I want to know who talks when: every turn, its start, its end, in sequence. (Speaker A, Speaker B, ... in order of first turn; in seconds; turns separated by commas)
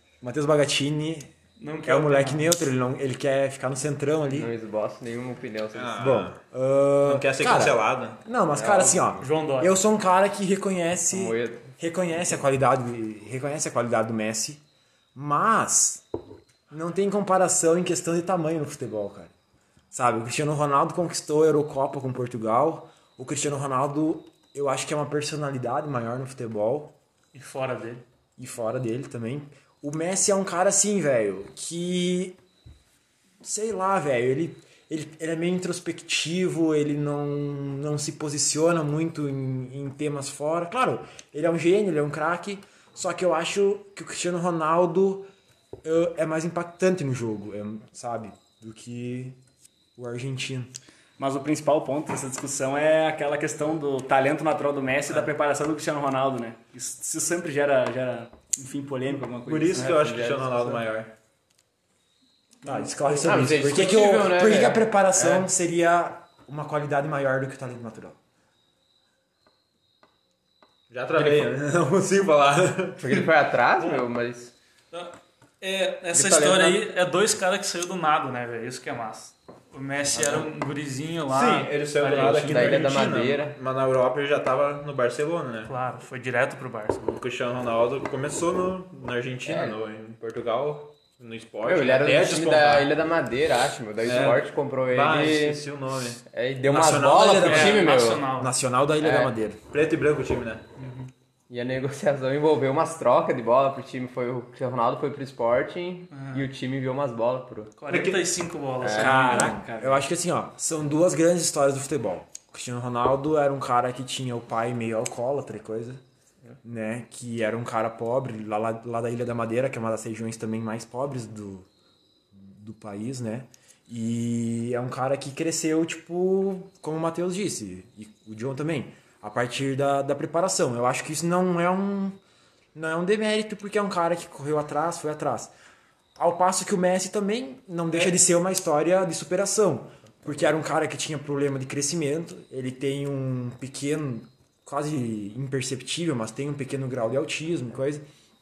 Speaker A: 0.2-1.3, Speaker B: 1.6-2.6, Speaker A: 1.8-4.5, Speaker C: 4.3-6.1, Speaker D: 5.7-6.4, Speaker A: 6.0-14.6, Speaker D: 7.0-8.2, Speaker C: 8.5-9.1, Speaker B: 9.2-9.8, Speaker C: 11.1-12.4, Speaker A: 15.1-16.0, Speaker A: 16.7-19.3, Speaker A: 19.9-26.9, Speaker B: 27.3-28.0, Speaker A: 28.4-32.4, Speaker A: 33.4-45.3, Speaker A: 45.8-49.4, Speaker A: 50.0-50.7, Speaker E: 51.2-60.7, Speaker D: 59.4-61.1, Speaker C: 59.8-60.0, Speaker A: 62.6-68.2, Speaker C: 63.2-65.4, Speaker D: 70.9-73.2, Speaker A: 71.2-72.9, Speaker C: 73.0-74.5, Speaker B: 73.8-74.1, Speaker B: 74.9-82.9, Speaker C: 76.1-76.8, Speaker C: 80.2-80.4, Speaker D: 81.3-85.7, Speaker C: 82.0-83.6, Speaker B: 85.7-87.2, Speaker D: 87.0-92.9, Speaker C: 89.5-89.8, Speaker C: 91.6-95.7, Speaker D: 94.0-97.9, Speaker C: 96.2-98.3, Speaker B: 97.4-98.5, Speaker A: 98.4-99.6, Speaker C: 99.0-99.3, Speaker D: 99.7-100.6, Speaker B: 100.8-101.1, Speaker C: 101.5-107.7, Speaker B: 106.1-106.5, Speaker B: 107.8-109.5, Speaker D: 107.9-108.3, Speaker C: 108.8-109.5, Speaker E: 108.9-110.0, Speaker A: 109.0-116.0, Speaker A: 116.6-121.7, Speaker A: 122.3-132.2, Speaker A: 132.7-135.5, Speaker A: 136.2-148.0